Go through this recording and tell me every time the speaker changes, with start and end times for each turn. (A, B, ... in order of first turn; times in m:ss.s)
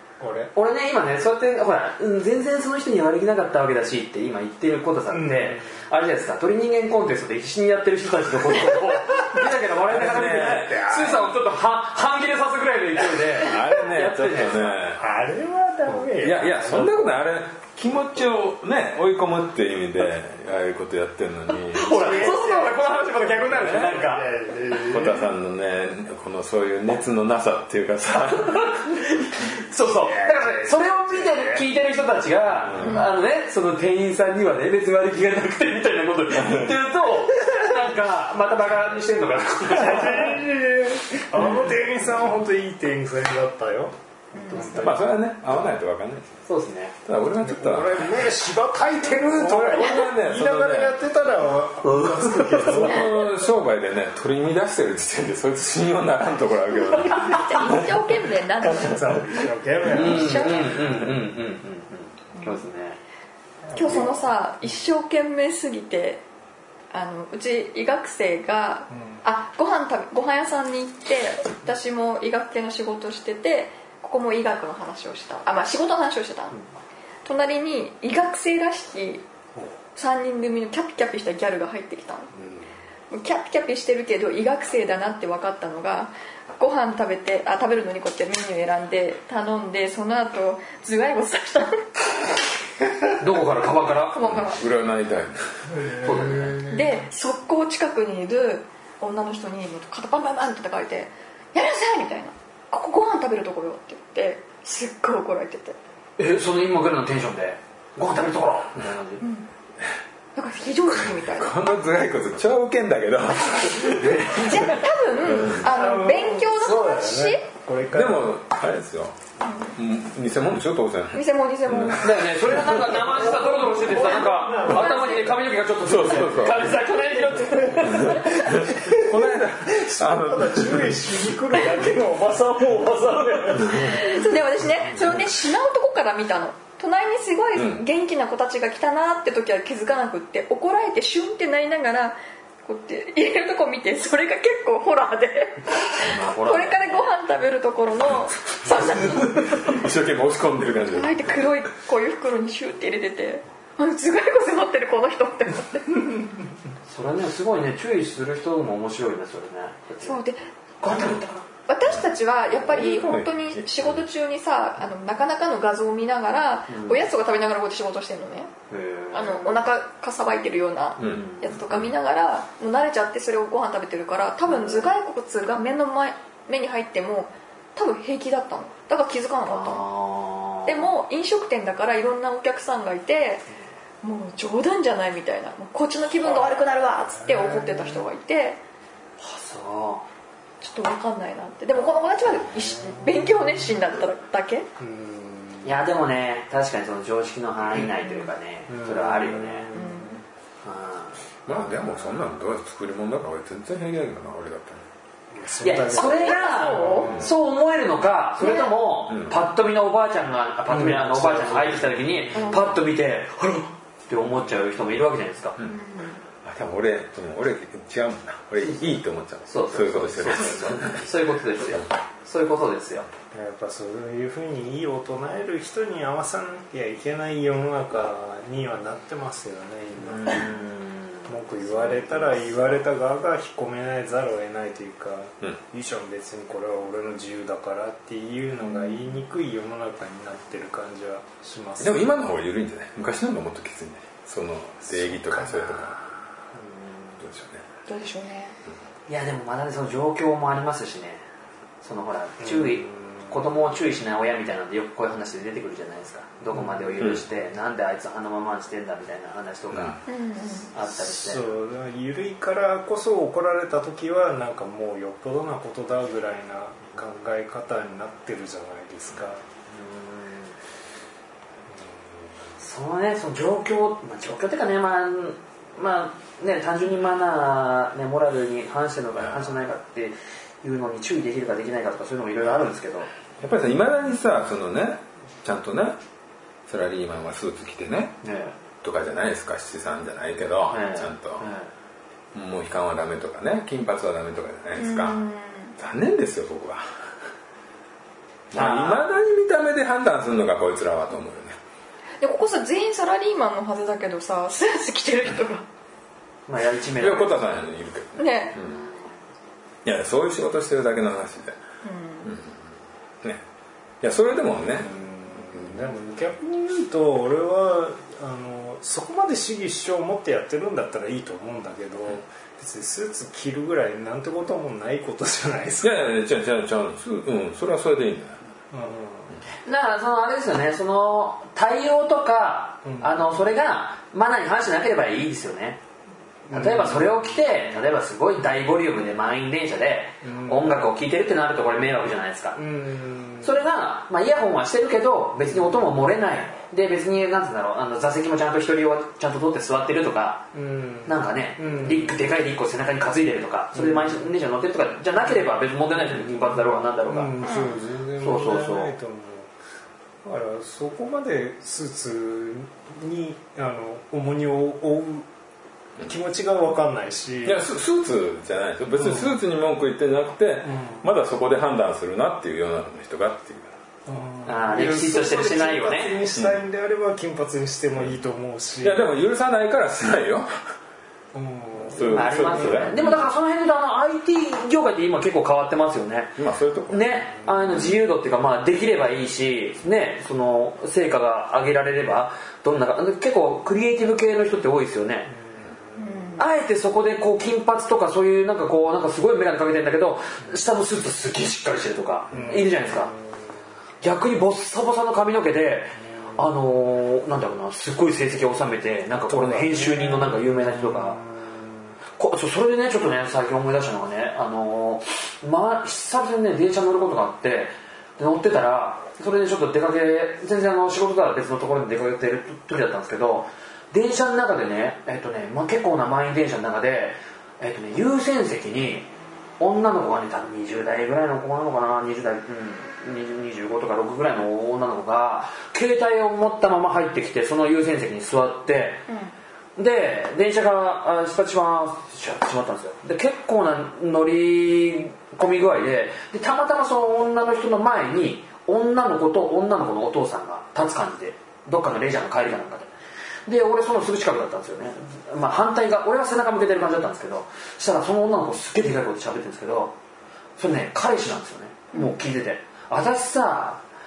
0:00.2-0:00.5 A
0:00.5-0:14.8 B
0:05.1-0:05.8 A
0:09.9-0:11.1 C
0:13.4-0:15.0 C
0:15.0-0:17.2 A
0:16.2-0:22.3 C
0:21.7-0:24.3 B
0:21.9-0:25.2 A
0:23.5-0:23.9 C
0:24.9-0:28.8 C
0:28.5-0:40.4 B
0:30.1-0:31.6 A
0:32.7-0:33.0 C
0:36.4-0:36.7 C
0:39.7-0:45.0 A
0:44.3-0:44.8 D
0:44.5-0:44.9 B
0:44.8-0:46.4 C
0:46.4-0:46.9 B
0:47.0-0:48.2 C
0:47.4-0:53.2 A
0:49.2-0:51.0 C
0:51.8-0:53.0 B
0:52.6-0:58.0 C
0:57.2-0:59.2 D
0:58.6-1:01.0 A
0:59.9-1:00.9 D
0:59.9-1:03.0 B
1:02.4-1:02.6 D
1:03.6-1:04.3 A
1:03.7-1:06.2 D
1:06.9-1:16.6 D
1:17.2-1:19.2 D
1:19.9-1:22.3 D
1:23.1-1:31.9 D
1:33.2-1:34.2 B
1:33.9-1:34.6 D
1:34.2-1:35.4 C
1:35.7-1:36.9 A
1:36.0-1:36.6 B
1:36.6-1:45.8 D
1:46.2-1:49.2 B
1:49.2-1:49.5 D
1:50.3-1:51.6 D
1:51.0-1:55.6 C
1:54.1-1:57.4 D
1:55.6-1:58.3 A
1:57.9-1:59.2 C
1:59.4-1:59.7 D
1:59.7-2:02.8 C
2:01.1-2:02.4 D
2:02.0-2:08.4 B
2:02.8-2:05.3 A
2:04.1-2:05.4 D
2:05.8-2:06.7 C
2:06.7-2:14.2 A
2:08.0-2:11.0 C
2:13.7-2:29.8 D
2:17.6-2:17.8 C
2:26.0-2:26.9 B
2:28.7-2:31.5 C
2:30.9-2:36.1 D
2:36.9-2:40.2 B
2:40.0-2:40.4 D
2:40.8-2:41.4 B
2:41.7-2:48.5 D
2:42.6-2:44.0 C
2:46.7-2:47.0 B
2:48.7-2:49.6 B
2:49.1-2:59.8 D
2:51.0-2:51.6 B
2:51.0-2:51.9 C
2:54.5-2:54.9 B
2:59.5-3:00.9 B
3:00.6-3:03.5 D
3:04.0-3:08.6 D
3:07.2-3:08.0 A
3:09.2-3:10.0 B
3:10.6-3:14.7 D
3:12.9-3:13.4 A
3:14.8-3:15.8 A
3:15.6-3:19.7 B
3:18.0-3:18.3 D
3:18.7-3:20.2 A
3:19.7-3:20.2 D
3:20.6-3:21.9 B
3:21.4-3:24.8 C
3:25.3-3:27.3 A
3:25.6-3:35.6 B
3:25.9-3:27.1 D
3:28.4-3:28.7 D
3:29.1-3:29.4 C
3:30.7-3:32.6 C
3:35.6-3:36.2 D
3:36.4-3:41.1 C
3:39.5-3:43.1 B
3:43.3-3:50.5 A
3:50.0-3:52.3 B
3:51.2-4:02.0 A
3:58.7-3:59.0 D
4:01.8-4:06.0 C
4:04.9-4:06.0 A
4:06.5-4:07.2 B
4:07.2-4:07.6 C
4:07.9-4:08.5 D
4:09.1-4:11.2 B
4:11.8-4:20.0 B
4:12.4-4:13.3 A
4:16.5-4:17.0 A
4:19.7-4:20.0 C
4:20.1-4:20.7 D
4:20.7-4:21.5 B
4:20.9-4:29.4 A
4:29.7-4:30.6 B
4:32.6-4:43.1 B
4:43.4-4:46.0 C
4:46.7-4:48.2 C
4:48.2-4:48.6 B
4:48.8-4:51.4 C
4:50.7-4:51.7 B
4:52.3-4:55.2 C
4:54.8-4:55.7 D
4:55.8-4:56.8 C
4:58.5-5:01.6 C
4:58.5-4:59.0 B
5:02.2-5:05.6 D
5:06.5-5:07.4 B
5:07.0-5:08.8 C
5:08.2-5:08.6 D
5:08.7-5:09.1 B
5:09.8-5:11.6 C
5:11.8-5:12.4 D
5:12.2-5:12.5 C
5:14.0-5:14.9 C
5:14.6-5:26.1 A
5:25.8-5:28.4 C
5:28.7-5:29.3 A
5:29.6-5:35.8 B
5:32.8-5:33.1 A
5:36.5-5:37.2 A
5:36.5-5:42.7 B
5:40.2-5:40.9 A
5:42.6-5:43.5 A
5:43.4-5:50.4 B
5:45.5-5:45.8 A
5:50.5-5:52.2 A
5:51.0-5:57.4 B
5:53.7-5:54.3 A
5:56.0-5:59.5 A
5:57.4-5:57.8 D
5:58.2-5:58.9 B
6:00.2-6:05.3 A
6:06.0-6:07.6 A
6:07.4-6:13.7 C
6:09.0-6:09.2 A
6:14.1-6:19.1 A
6:14.4-6:16.2 B
6:18.8-6:20.5 C
6:21.3-6:22.9 A
6:21.9-6:23.2 C
6:22.1-6:26.4 B
6:26.4-6:27.2 C
6:26.9-6:35.3 B
6:36.0-6:36.4 D
6:36.4-6:43.1 B
6:42.3-6:43.0 A
6:44.0-6:51.2 B
6:49.3-6:51.8 A
6:52.2-7:09.1 B
7:09.6-7:19.0 B
7:19.1-7:19.3 D
7:19.8-7:32.9 B
7:33.5-7:39.9 B
7:40.6-7:43.8 B